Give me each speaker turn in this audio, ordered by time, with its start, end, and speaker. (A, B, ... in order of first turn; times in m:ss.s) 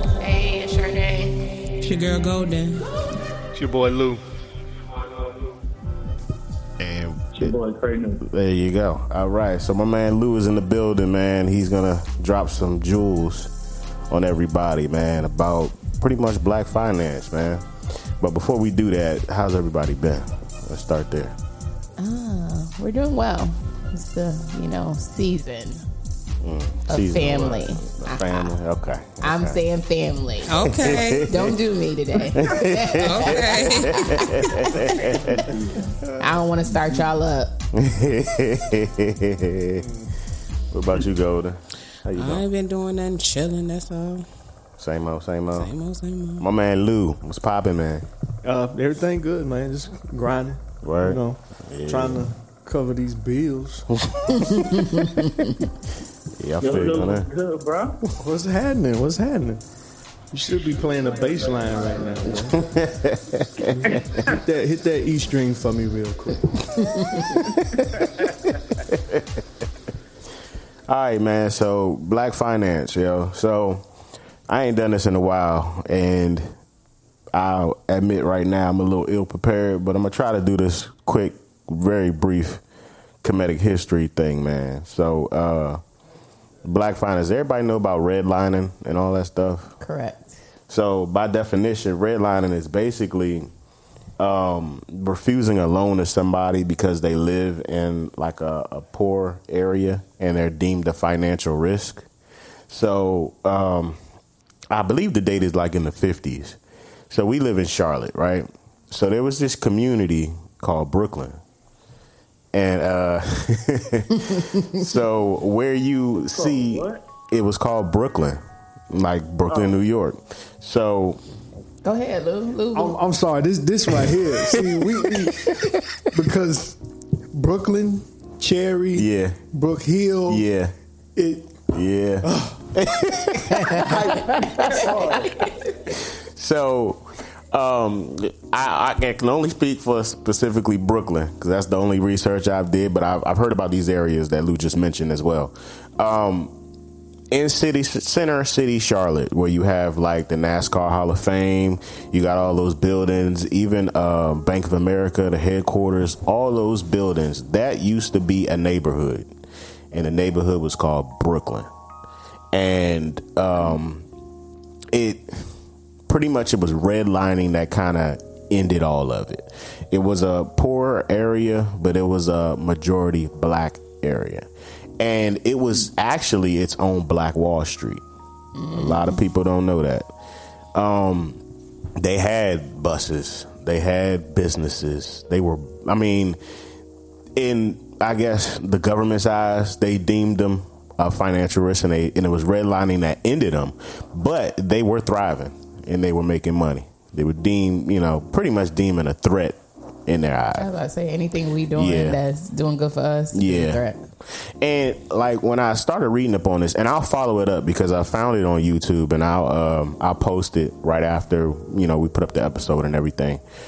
0:00.2-0:01.5 A
0:01.8-0:02.8 B
0:03.5-0:04.2 C
0:06.8-0:07.6 D
0:07.4-0:08.2 E
0:08.2-0:13.5 D
0:14.1-0:21.4 D
0:22.0-0:25.8 A
0:26.4-0:29.6 D
0:26.9-0:28.6 A
0:29.2-0:35.3 A
0:30.4-0:31.3 B
0:30.6-0:31.6 D
0:32.2-0:35.5 D
0:33.0-0:34.4 B
0:35.4-0:35.8 E
0:36.2-0:37.6 A
0:37.7-0:39.9 D
0:40.7-0:42.5 D
0:42.1-0:44.2 B
0:44.8-0:45.7 D
0:45.5-0:46.5 B
0:46.4-0:48.0 D
0:48.4-0:53.9 C
0:50.8-0:52.3 D
0:54.0-0:55.6 D
0:54.5-0:55.4 A
0:56.4-0:57.3 D
0:56.6-0:58.0 E
0:58.2-0:59.6 C
1:00.3-1:02.6 C
1:02.3-1:04.2 D
1:04.2-1:07.1 C
1:07.4-1:09.4 D
1:10.9-1:13.8 D
1:14.5-1:16.5 D
1:17.3-1:22.6 D
1:23.2-1:25.8 D
1:26.6-1:29.8 D
1:29.8-1:30.4 A
1:30.7-1:33.5 D
1:34.2-1:42.1 D
1:42.7-1:44.0 D
1:44.7-1:46.6 D
1:47.1-1:51.4 D
1:52.5-1:58.4 D
1:56.3-1:57.0 E
1:58.9-2:01.2 D
1:59.5-1:59.7 E
2:01.8-2:03.0 A
2:02.7-2:06.8 C
2:03.9-2:06.1 D
2:07.3-2:10.4 C
2:08.9-2:09.4 D
2:10.3-2:10.7 D
2:11.2-2:11.6 C
2:11.7-2:26.5 D
2:12.2-2:12.7 C
2:13.6-2:15.6 C
2:27.3-2:39.3 D
2:39.9-2:41.7 D
2:42.5-2:44.0 D
2:44.9-2:45.5 D
2:46.1-2:54.5 D
2:55.0-2:58.0 D
2:58.6-2:59.2 A
2:58.7-3:00.1 D
3:00.7-3:01.4 D
3:02.0-3:06.4 D
3:07.4-3:20.7 D
3:20.6-3:24.0 A
3:21.8-3:22.2 D
3:23.3-3:33.4 D